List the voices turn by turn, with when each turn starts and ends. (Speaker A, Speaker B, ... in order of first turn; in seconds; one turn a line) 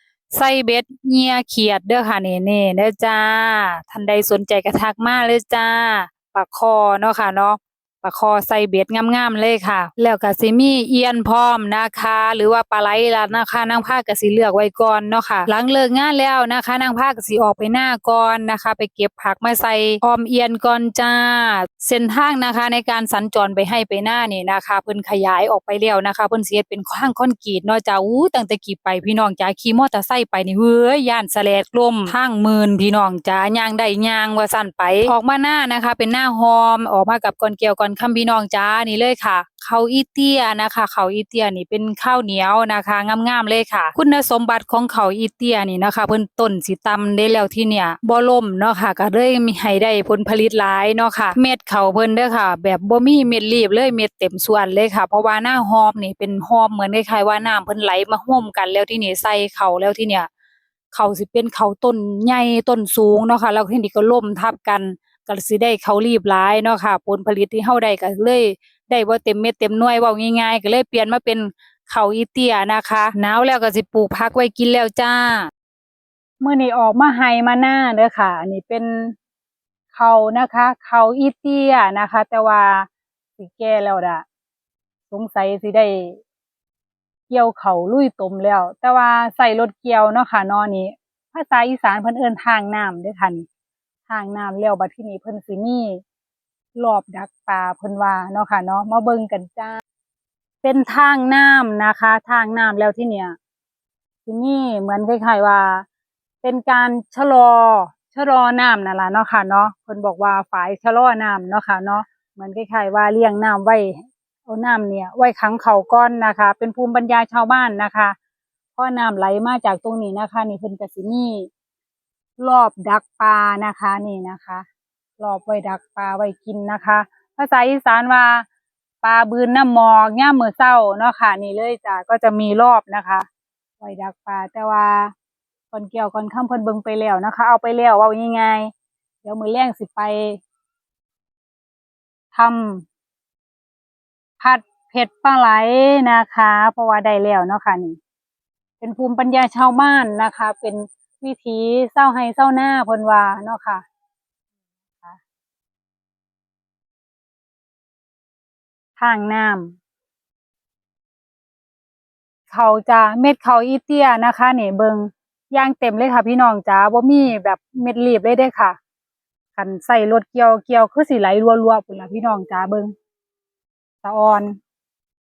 Speaker A: 0.3-60.3
Speaker A: 60.9-75.5
Speaker A: 76.4-79.1
Speaker A: 79.9-84.2
Speaker A: 85.1-86.2
Speaker A: 87.3-93.5
Speaker A: 94.1-96.0
Speaker A: 96.8-99.8
Speaker A: 100.6-103.4
Speaker A: 104.3-105.8
Speaker A: 106.4-118.2
Speaker A: 118.8-121.5
Speaker A: 122.4-124.7
Speaker A: 125.2-128.4
Speaker A: 129.0-133.3
Speaker A: 133.8-135.1
Speaker A: 135.7-138.7
Speaker A: 139.2-140.4
Speaker A: 142.3-142.9
Speaker A: 144.4-148.0
Speaker A: 148.8-153.8
Speaker A: 159.0-159.8
Speaker A: 162.5-168.8
Speaker A: 169.6-172.9
Speaker A: 174.0-174.6